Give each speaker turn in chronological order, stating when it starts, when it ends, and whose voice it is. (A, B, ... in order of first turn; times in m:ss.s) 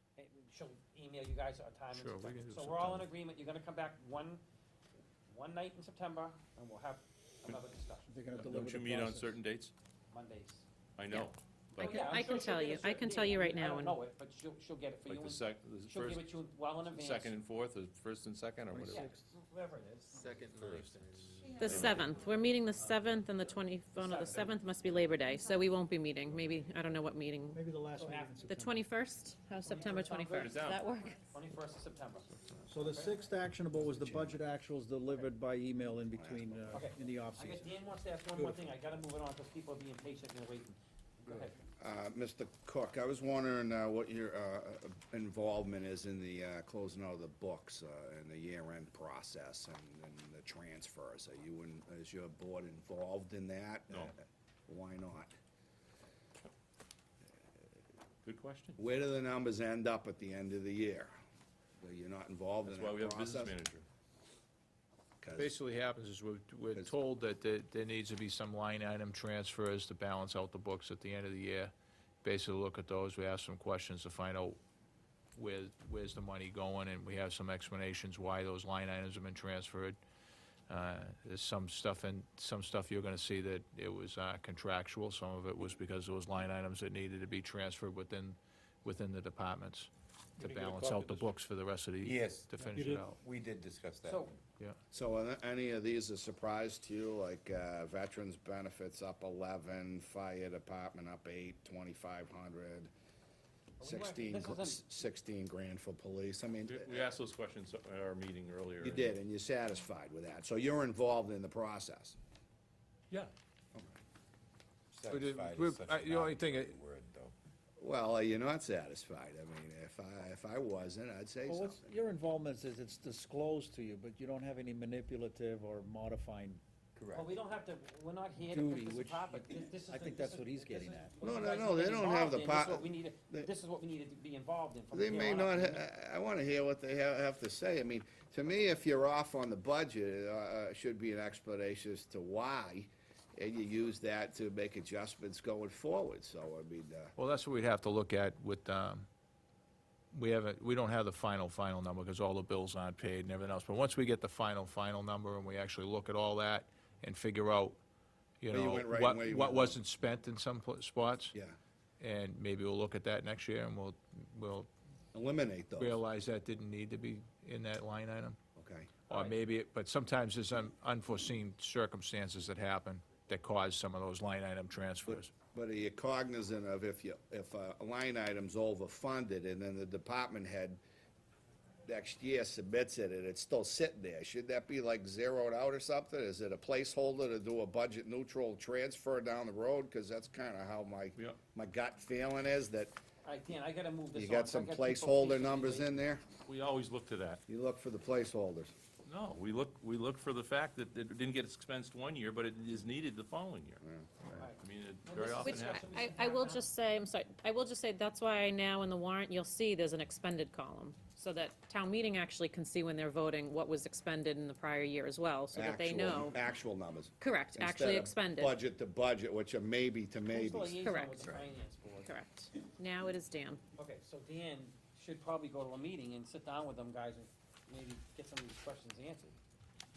0:00.2-0:04.4 A
0:01.9-0:03.1 B
0:05.3-0:08.1 A
0:08.1-0:09.4 C
0:08.4-0:09.7 D
0:10.1-0:10.6 A
0:11.0-0:12.0 D
0:11.1-0:14.0 E
0:11.8-0:17.4 A
0:15.1-0:19.1 D
0:18.7-0:19.2 C
0:18.9-0:20.5 A
0:20.5-0:20.8 F
0:20.6-0:22.1 D
0:21.6-0:27.6 E
0:24.0-0:24.5 A
0:27.5-0:28.8 C
0:28.0-0:28.5 A
0:28.5-0:31.2 E
0:29.6-0:30.6 A
0:30.4-0:30.8 D
0:31.3-0:33.2 A
0:32.7-0:37.7 C
0:34.0-0:34.3 G
0:36.1-0:36.8 G
0:36.7-0:41.6 A
0:41.8-0:55.3 G
0:58.2-0:58.8 D
0:58.8-1:01.1 G
1:01.8-1:03.6 G
1:02.6-1:03.8 D
1:05.2-1:05.6 G
1:05.4-1:11.7 B
1:12.2-1:14.6 B
1:15.4-1:20.0 B
1:20.7-1:33.2 B
1:30.8-1:31.3 F
1:32.0-1:34.4 F
1:34.0-1:34.3 A
1:34.9-1:42.9 G
1:43.8-1:44.8 A
1:43.8-1:47.1 G
1:46.6-1:49.2 D
1:48.8-1:52.2 G
1:54.9-1:57.3 F
1:55.1-1:56.8 B
1:57.8-2:01.9 G
2:01.5-2:07.3 C
2:07.2-2:15.8 A
2:08.4-2:11.3 C
2:11.2-2:13.5 G
2:14.9-2:27.1 G
2:27.2-2:29.1 B
2:30.1-2:37.8 B
2:38.4-2:41.4 B
2:38.5-2:39.8 G
2:42.0-2:44.7 B
2:45.1-2:46.0 G
2:45.8-2:48.4 B
2:48.6-2:49.0 G
2:49.1-2:49.4 A
2:49.1-2:55.3 B
2:55.1-3:00.8 G
3:01.9-3:13.0 G
3:13.2-3:15.9 A
3:14.1-3:16.2 G
3:16.4-3:17.4 D
3:17.5-3:18.7 G
3:19.1-3:23.8 D
3:23.8-3:24.4 G
3:24.4-3:26.6 A
3:24.6-3:26.0 D
3:25.4-3:36.4 E
3:35.5-3:41.4 G
3:37.2-3:38.6 E
3:40.3-3:42.1 A
3:40.8-3:41.3 E
3:42.1-3:43.6 E
3:43.8-3:49.4 A